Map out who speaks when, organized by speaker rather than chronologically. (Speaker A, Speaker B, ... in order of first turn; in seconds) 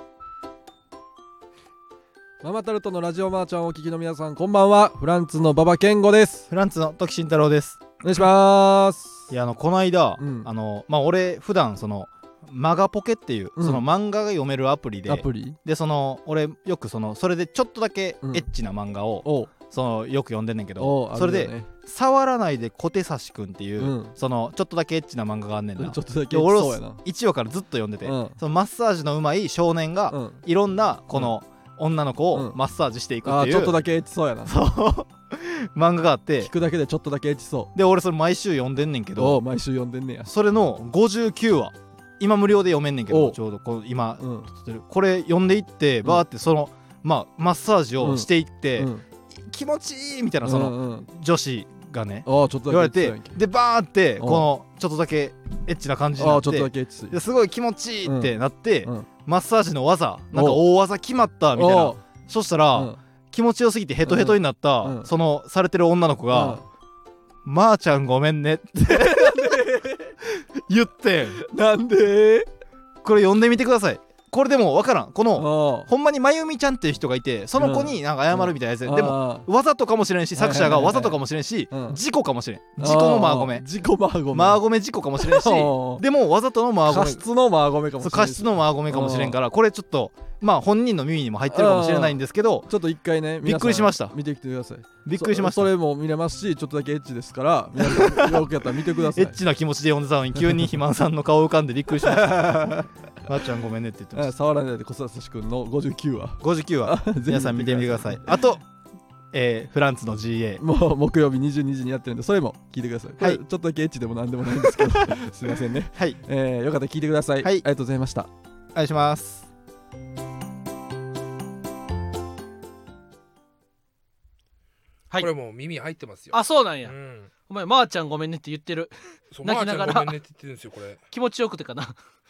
Speaker A: 2.4-6.5, 8.0-9.3, 10.2-10.5, 13.6-13.8, 15.1-15.6, 19.2-19.5, 20.8-21.7, 23.8-24.1, 25.8-27.0, 28.0-28.4, 30.1-30.4, 32.3-32.6, 33.2-34.5, 36.4-37.7, 39.1-40.3, 43.1-43.4, 44.2-44.5, 48.0-49.0, 50.4-51.1, 52.2-53.4, 54.2-54.5, 56.2-57.2, 58.0-59.1, 60.3-60.6, 61.5-62.0, 62.7-63.0, 64.0-65.1, 66.3-66.6, 68.9-70.1, 71.3-72.5, 75.3-75.9, 77.6-79.5, 80.3-82.0, 82.8-84.6, 85.2-86.0, 86.9-89.4, 91.5-99.4, 100.4-100.7, 102.0-103.5, 104.1-108.4, 110.6-118.3
Speaker B: 6.5-7.8, 9.3-33.8, 34.5-36.5, 37.7-39.4, 40.3-48.9, 49.4-66.6, 67.4-69.7, 70.4-71.4, 73.0-83.7, 84.3-87.2, 88.0-92.7, 93.4-94.2, 95.0-95.7, 97.8-98.5, 99.1-104.3, 106.4-108.6, 109.3-110.6, 114.6-114.9, 118.7-119.5
Speaker C: 125.2-127.3, 129.3-131.0
Speaker D: 126.3-126.9, 127.5-130.1, 131.1-131.9